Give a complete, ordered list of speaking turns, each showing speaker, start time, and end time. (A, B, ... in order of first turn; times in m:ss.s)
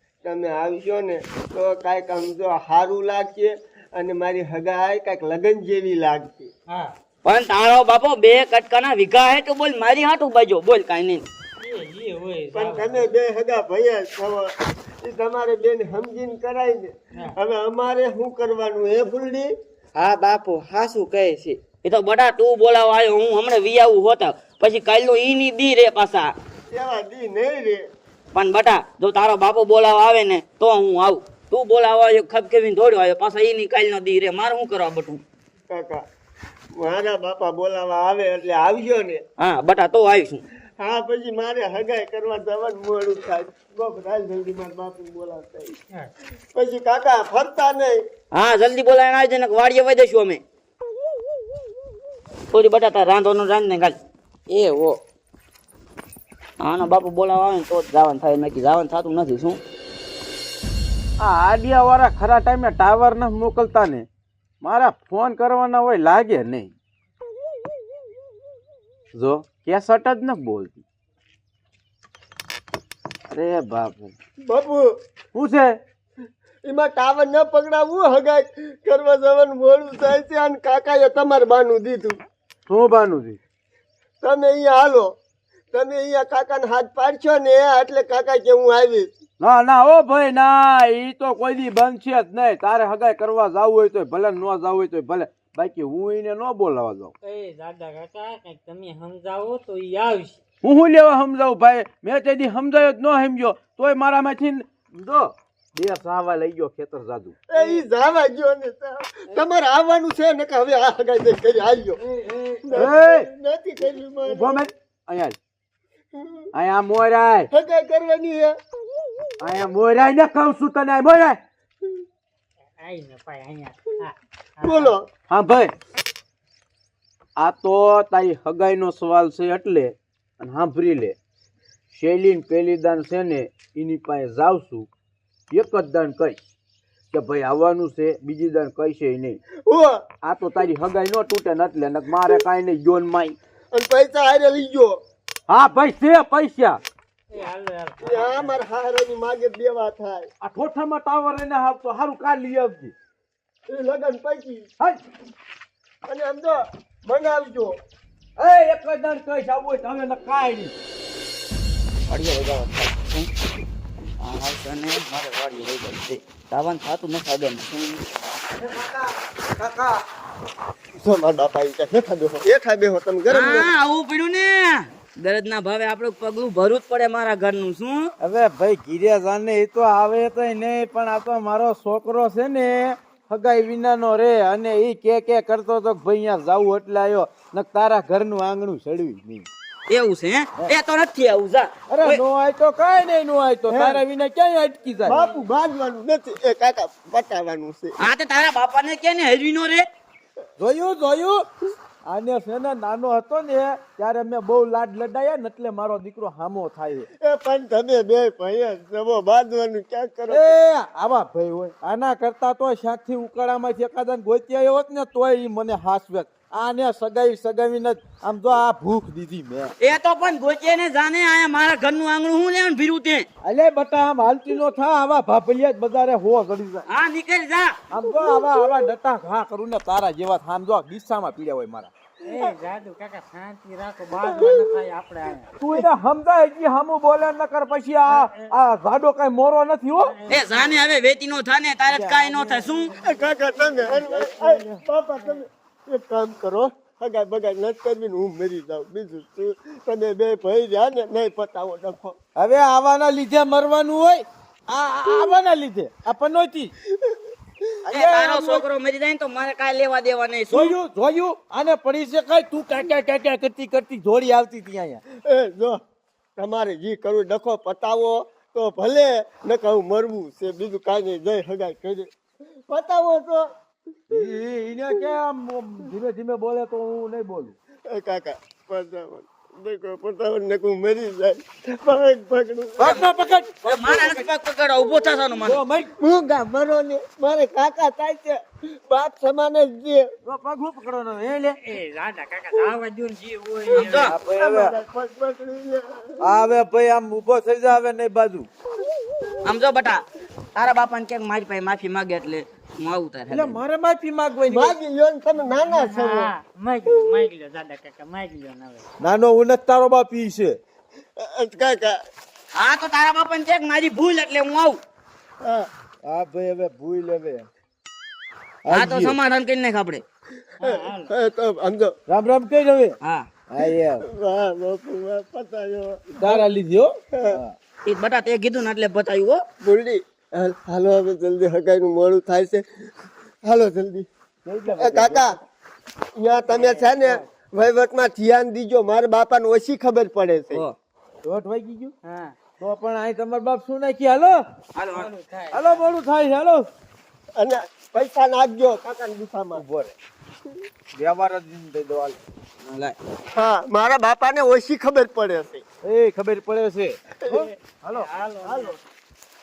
0:00.2-0:06.5 A
0:07.2-0:11.2 B
0:11.6-0:13.1 C
0:12.5-0:19.5 A
0:20.0-0:21.6 D
0:21.8-0:26.3 B
0:26.7-0:27.8 A
0:28.3-0:35.2 B
0:35.7-0:36.0 A
0:36.8-0:39.2 A
0:39.4-0:40.4 B
0:40.8-0:45.7 A
0:46.5-0:48.0 A
0:48.3-0:50.4 B
0:52.5-0:54.0 B
0:54.5-0:55.0 D
0:56.6-0:59.6 B
1:01.2-1:04.0 E
1:04.6-1:06.7 E
1:09.1-1:10.8 E
1:13.3-1:14.2 E
1:14.4-1:14.9 A
1:15.3-1:15.7 E
1:16.6-1:22.2 A
1:22.7-1:23.4 E
1:24.2-1:25.1 A
1:25.7-1:29.1 A
1:29.4-1:37.1 E
1:37.2-1:40.4 C
1:40.6-1:47.4 E
1:47.5-1:52.0 A
1:47.6-1:47.8 C
1:52.0-1:52.7 C
1:52.6-1:54.6 A
1:52.8-1:53.3 E
1:54.3-1:55.4 E
1:56.1-1:56.5 A
1:56.5-1:57.5 E
1:57.5-1:58.6 A
1:59.4-2:01.4 E
2:02.8-2:04.9 C
2:04.6-2:05.0 A
2:05.3-2:05.7 E
2:07.4-2:11.2 E
2:11.9-2:14.9 E
2:15.5-2:16.4 E
2:17.1-2:19.4 E
2:19.6-2:20.0 A
2:20.2-2:23.4 E
2:23.7-2:25.0 A
2:25.5-2:26.8 E
2:27.3-2:28.5 C
2:28.0-2:30.3 A
2:30.4-2:32.9 E
2:33.7-2:34.6 A
2:36.0-2:37.7 A
2:38.4-2:40.7 E
2:42.1-2:43.3 B
2:44.2-2:48.0 B
2:48.6-2:50.0 E
2:51.0-2:53.7 A
2:53.3-2:58.1 B
2:58.2-3:09.5 E
3:09.9-3:12.2 B
3:11.9-3:15.2 E
3:13.7-3:14.0 A
3:15.0-3:18.0 A
3:18.0-3:19.8 B
3:20.6-3:21.4 E
3:22.0-3:27.1 E
3:27.2-3:30.5 A
3:30.3-3:39.7 E
3:39.8-3:43.2 B
3:43.4-3:46.8 E
3:46.9-3:47.7 B
3:47.9-3:51.9 E
3:48.2-3:48.6 A
3:52.2-3:55.5 C
3:54.2-3:54.7 A
3:55.6-4:00.1 E
3:58.1-3:58.5 C
4:00.1-4:00.8 C
4:00.3-4:02.9 B
4:01.9-4:02.6 E
4:02.5-4:02.8 C
4:03.0-4:12.2 A
4:03.6-4:04.8 E
4:12.4-4:16.7 E
4:17.0-4:17.7 A
4:17.8-4:18.6 E
4:17.9-4:20.7 B
4:20.5-4:25.0 E
4:25.2-4:25.8 A
4:26.4-4:32.1 A
4:32.7-4:33.5 A
4:34.1-4:37.6 E
4:37.9-4:43.0 A
4:42.8-4:44.3 E
4:42.8-4:43.1 B
4:43.6-4:45.6 B
4:45.4-4:45.9 E
4:46.0-4:50.0 A
4:50.2-4:51.6 E
4:51.6-4:54.0 C
4:53.7-4:56.0 A
4:53.8-4:54.1 B
4:54.0-4:54.7 E
4:56.2-4:58.5 E
4:59.4-5:00.0 B
5:00.5-5:03.6 B
5:03.3-5:04.8 E
5:04.5-5:06.3 A
5:05.6-5:08.8 C
5:09.0-5:10.6 E
5:11.2-5:12.0 A
5:12.6-5:14.8 B
5:15.4-5:15.7 A
5:16.0-5:17.5 E
5:18.6-5:19.2 E
5:18.7-5:20.0 B
5:20.6-5:21.1 C
5:20.6-5:21.9 A
5:22.1-5:23.0 E
5:23.0-5:23.3 B
5:23.5-5:24.0 E
5:24.0-5:26.4 A
5:26.2-5:27.5 E
5:27.8-5:29.4 B
5:29.6-5:32.8 A
5:33.4-5:34.1 A
5:34.4-5:35.4 E
5:34.7-5:35.3 A
5:36.2-5:40.6 A
5:36.5-5:37.3 C
5:41.2-5:41.9 E
5:42.0-5:42.3 C
5:42.6-5:44.4 E
5:44.7-5:45.1 B
5:44.9-5:45.8 C
5:45.5-5:46.6 E
5:47.4-5:49.6 A
5:49.5-5:49.9 E
5:51.0-5:52.2 E
5:53.3-5:55.6 A
5:55.8-5:58.7 E
5:58.0-5:58.8 C